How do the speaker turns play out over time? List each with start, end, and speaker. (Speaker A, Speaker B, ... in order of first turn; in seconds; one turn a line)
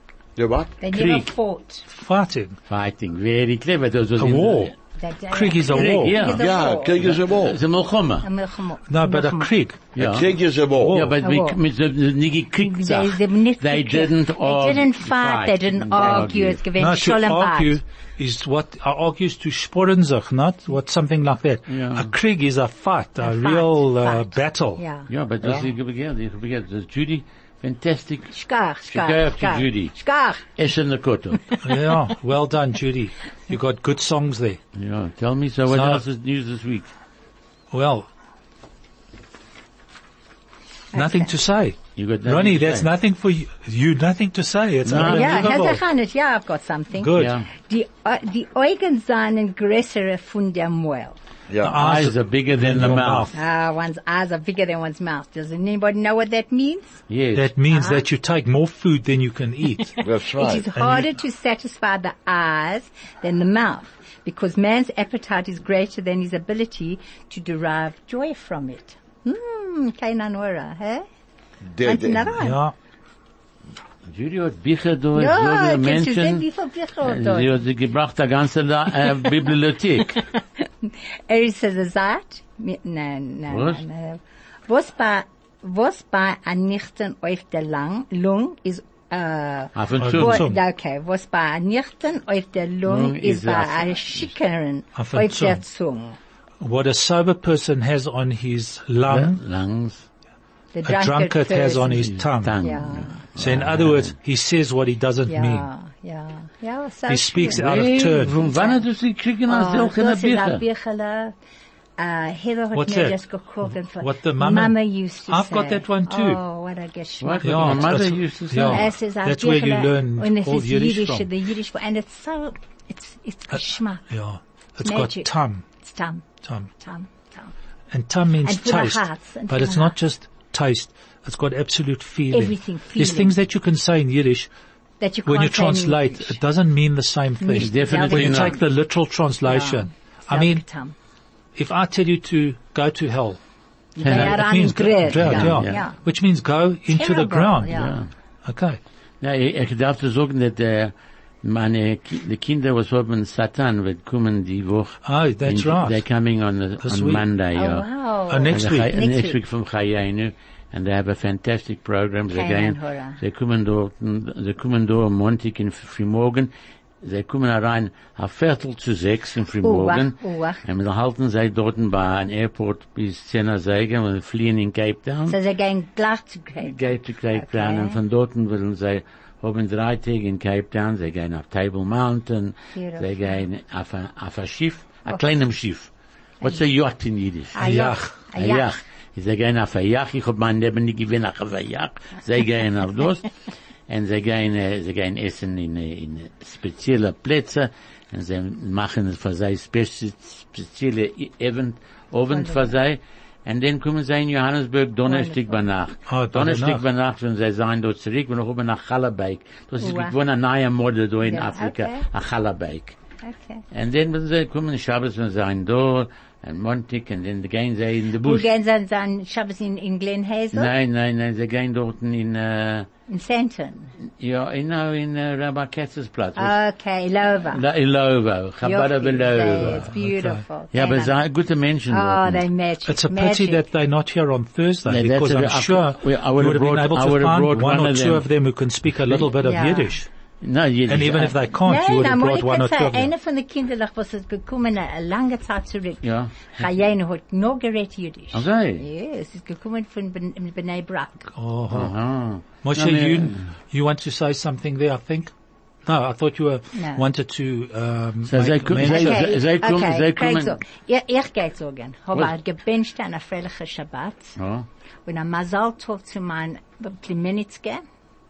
Speaker A: 0.4-0.8
Speaker B: 0.8-1.8
Speaker C: 0.9-1.3
Speaker D: 1.9-2.6
Speaker C: 2.6-4.7
Speaker D: 4.2-4.7
Speaker B: 5.0-7.2
Speaker D: 5.3-6.1
Speaker C: 5.7-8.3
Speaker A: 6.2-7.6
Speaker B: 8.2-9.5
Speaker D: 8.9-9.8
Speaker C: 9.9-10.3
Speaker A: 9.9-11.1
Speaker C: 10.8-16.6
Speaker D: 10.8-11.2
Speaker B: 11.2-11.6
Speaker B: 12.6-17.8
Speaker D: 16.8-24.8
Speaker C: 21.7-22.1
Speaker B: 23.2-25.1
Speaker C: 25.1-28.3
Speaker B: 28.3-30.4
Speaker C: 28.9-29.9
Speaker C: 30.6-31.4
Speaker B: 31.5-32.0
Speaker D: 31.6-34.6
Speaker C: 34.7-36.9
Speaker D: 35.7-36.0
Speaker D: 37.7-38.1
Speaker B: 40.9-41.3
Speaker D: 40.9-45.8
Speaker C: 42.0-42.9
Speaker C: 44.8-45.5
Speaker B: 44.9-51.2
Speaker D: 47.0-47.4
Speaker C: 47.1-47.5
Speaker A: 51.5-51.8
Speaker D: 51.6-53.3
Speaker C: 51.7-53.3
Speaker B: 53.3-57.0
Speaker C: 57.1-57.5
Speaker D: 57.3-60.0
Speaker B: 57.7-58.0
Speaker A: 60.0-60.7
Speaker B: 60.4-71.0
Speaker D: 60.7-61.1
Speaker A: 71.7-72.3
Speaker B: 71.8-72.6
Speaker D: 72.4-72.7
Speaker C: 74.0-76.4
Speaker B: 75.1-77.6
Speaker C: 77.0-80.2
Speaker B: 80.4-96.2
Speaker C: 83.5-83.8
Speaker C: 89.7-90.5
Speaker D: 90.0-90.6
Speaker C: 92.8-94.3
Speaker D: 95.0-95.6
Speaker D: 96.6-99.4
Speaker C: 99.1-100.0
Speaker B: 100.7-103.2
Speaker D: 100.8-102.6
Speaker C: 102.1-104.1
Speaker D: 103.3-105.7
Speaker B: 105.3-107.7
Speaker D: 107.1-108.3
Speaker C: 107.4-110.6
Speaker B: 108.3-108.8
Speaker B: 109.5-111.3
Speaker B: 112.0-118.1
Speaker D: 112.7-116.4
Speaker C: 117.2-118.9
Speaker D: 117.4-121.3
Speaker B: 118.6-124.1
Speaker D: 124.1-125.6
Speaker B: 124.8-126.2
Speaker D: 126.4-126.7
Speaker B: 126.8-127.5
Speaker D: 127.9-134.5
Speaker B: 128.4-129.9
Speaker B: 132.3-133.3
Speaker B: 135.0-136.4
Speaker D: 135.2-140.6
Speaker B: 137.4-138.6
Speaker C: 137.5-138.6
Speaker B: 139.4-140.9
Speaker D: 141.6-143.4
Speaker B: 143.9-146.0
Speaker C: 144.0-144.4
Speaker D: 144.0-147.9
Speaker C: 145.1-145.8
Speaker B: 146.9-148.0
Speaker C: 147.7-148.1
Speaker D: 148.4-148.8
Speaker C: 149.2-157.8
Speaker D: 155.0-156.0
Speaker D: 156.8-157.2
Speaker B: 157.5-159.4
Speaker D: 158.3-159.0
Speaker C: 158.5-166.5
Speaker B: 162.3-163.2
Speaker C: 167.0-175.4
Speaker B: 169.6-170.6
Speaker B: 175.3-178.0
Speaker C: 176.6-185.9
Speaker B: 182.7-183.4
Speaker C: 186.4-187.8
Speaker B: 187.5-188.7
Speaker D: 187.6-188.1
Speaker C: 188.3-193.3
Speaker C: 193.9-213.0
Speaker B: 202.3-202.8
Speaker B: 205.1-205.6
Speaker D: 206.1-206.8
Speaker B: 209.8-210.1
Speaker B: 211.2-212.1
Speaker B: 213.2-213.6
Speaker C: 213.7-218.5
Speaker B: 218.2-220.7
Speaker C: 220.5-222.9
Speaker B: 223.1-223.9
Speaker C: 224.0-226.6
Speaker B: 226.4-227.6
Speaker C: 227.5-229.9
Speaker B: 228.6-231.1
Speaker D: 229.7-230.4
Speaker C: 230.7-232.4
Speaker B: 231.9-233.6
Speaker D: 232.9-240.1
Speaker C: 234.8-238.2
Speaker B: 239.4-239.9
Speaker C: 240.4-241.4
Speaker D: 240.9-243.1
Speaker B: 241.6-251.3
Speaker C: 246.0-246.7
Speaker C: 248.3-248.8
Speaker D: 251.3-251.9
Speaker C: 251.7-253.4
Speaker D: 252.6-255.3
Speaker D: 255.8-259.3
Speaker B: 256.7-257.0
Speaker C: 258.2-260.6
Speaker B: 258.8-264.4
Speaker C: 264.4-264.6
Speaker B: 265.1-267.8